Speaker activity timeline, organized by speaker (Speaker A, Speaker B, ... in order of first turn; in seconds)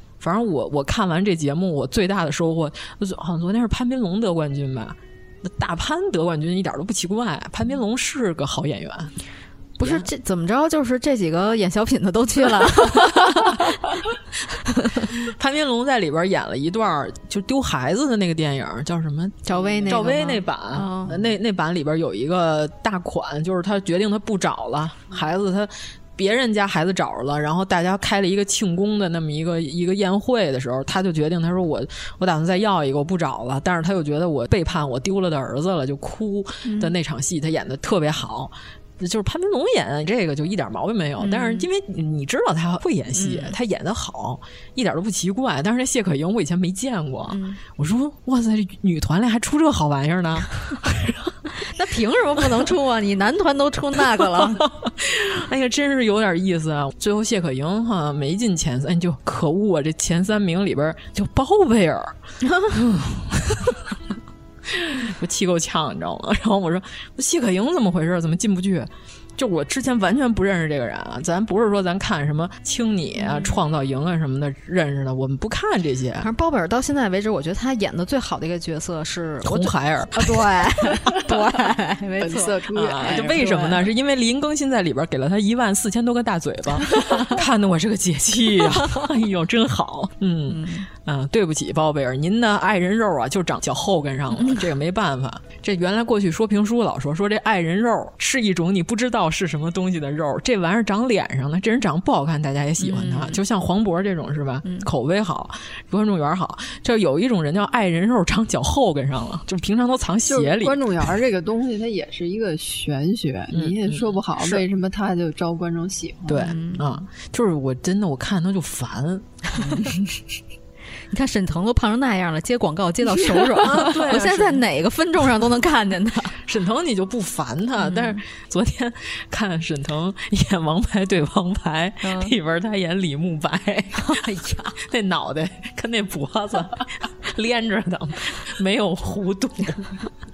Speaker A: 0.2-9.1, 9.8-10.1, 13.0-13.5, 15.0-51.3, 54.0-62.1, 62.7-63.9, 64.7-76.3, 79.4-81.2, 82.7-110.8, 113.5-114.6, 116.3-119.7, 123.6-124.6, 126.5-134.2, 134.8-140.1
Speaker B: 9.8-14.0, 14.8-15.1, 19.5-21.3, 36.6-36.9, 41.2-41.7, 43.2-43.6, 47.3-47.6, 51.6-54.7, 62.5-62.8, 73.2-73.6, 76.2-83.8, 87.0-87.2, 90.5-90.9, 102.8-103.4, 116.3-116.9, 121.1-126.4, 127.8-128.2, 132.0-132.3, 134.0-134.8
Speaker C: 82.2-83.7, 110.2-116.5